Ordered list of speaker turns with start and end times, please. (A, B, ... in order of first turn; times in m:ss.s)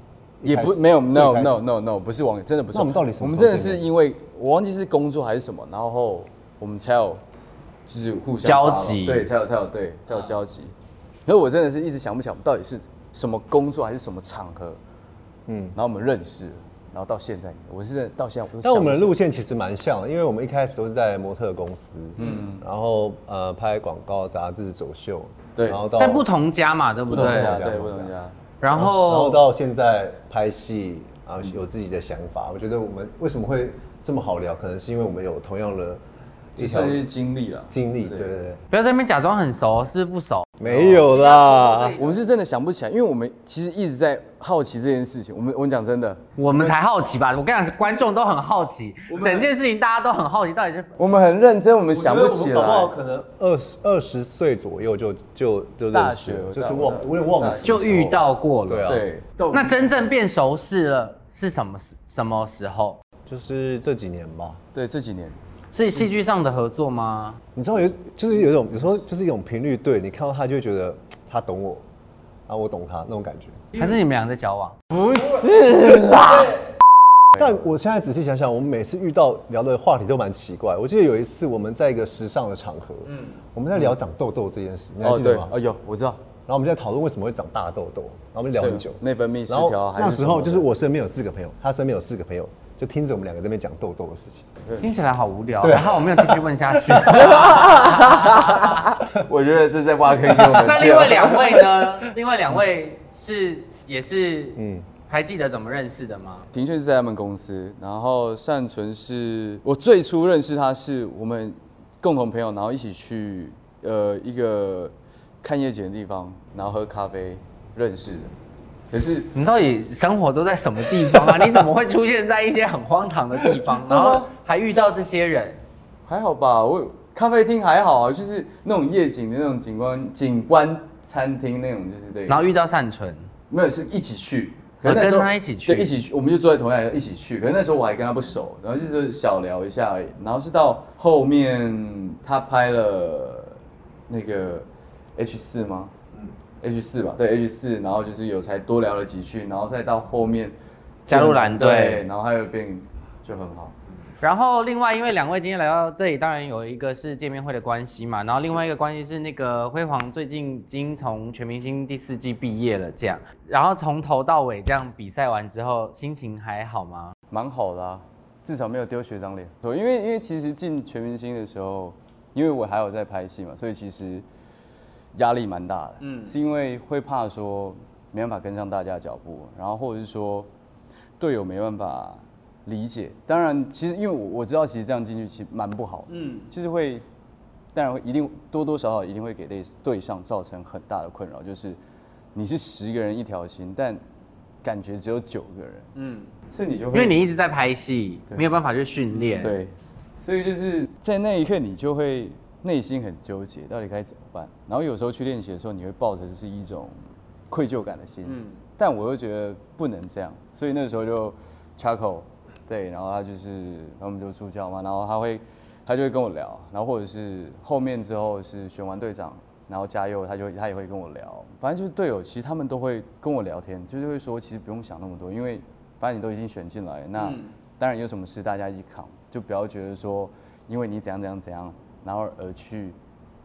0:00.4-0:01.6 A
0:00.4-0:07.2 B
0:02.7-0:03.9 A
0:07.9-0:10.7 B
0:08.4-0:09.3 C
0:11.2-0:14.8 B
0:15.5-0:15.8 A
0:15.7-0:19.2 B
0:18.6-0:26.2 A
0:22.2-0:22.6 B
0:25.6-0:26.2 B
0:26.0-0:27.6 C
0:27.1-0:28.4 B
0:27.1-0:28.1 A
0:28.6-0:29.4 C
0:28.7-0:36.0 A
0:36.6-0:37.0 A
0:36.6-0:38.3 B
0:37.7-0:38.6 A
0:38.7-0:42.2 C
0:40.6-0:42.0 A
0:40.6-0:41.1 B
0:42.0-0:46.7 B
0:46.4-0:50.9 C
0:49.1-0:49.5 B
0:51.0-0:52.9 B
0:51.9-0:59.0 A
0:55.9-0:58.2 B
0:57.6-1:03.0 C
0:58.8-0:59.8 B
1:03.3-1:04.6 A
1:04.7-1:05.4 B
1:05.7-1:07.4 C
1:07.6-1:11.8 A
1:12.5-1:13.6 A
1:13.8-1:16.6 C
1:17.3-1:17.6 B
1:17.4-1:25.5 A
1:25.0-1:26.2 B
1:26.4-1:34.5 A
1:28.6-1:30.7 B
1:34.6-1:34.9 B
1:34.8-1:38.8 C
1:35.6-1:37.4 A
1:37.0-1:41.7 B
1:40.3-1:40.8 A
1:40.5-1:46.4 C
1:44.6-1:44.9 A
1:46.5-1:58.3 B
1:58.9-1:59.3 B
1:59.3-2:05.6 C
2:01.1-2:01.4 A
2:03.6-2:04.2 A
2:06.0-2:12.4 B
2:12.3-2:13.3 C
2:13.5-2:23.6 B
2:14.8-2:15.9 C
2:24.1-2:25.9 B
2:26.6-2:30.5 B
2:31.1-2:33.7 B
2:31.1-2:32.0 C
2:34.2-2:47.1 C
2:47.3-2:54.2 B
2:55.1-3:00.5 B
3:01.2-3:07.0 B
3:07.7-3:11.8 B
3:12.3-3:14.0 B
3:14.6-3:15.9 B
3:16.5-3:17.2 B
3:16.9-3:19.5 C
3:19.3-3:27.0 B
3:27.5-3:53.0 B
3:28.2-3:28.6 C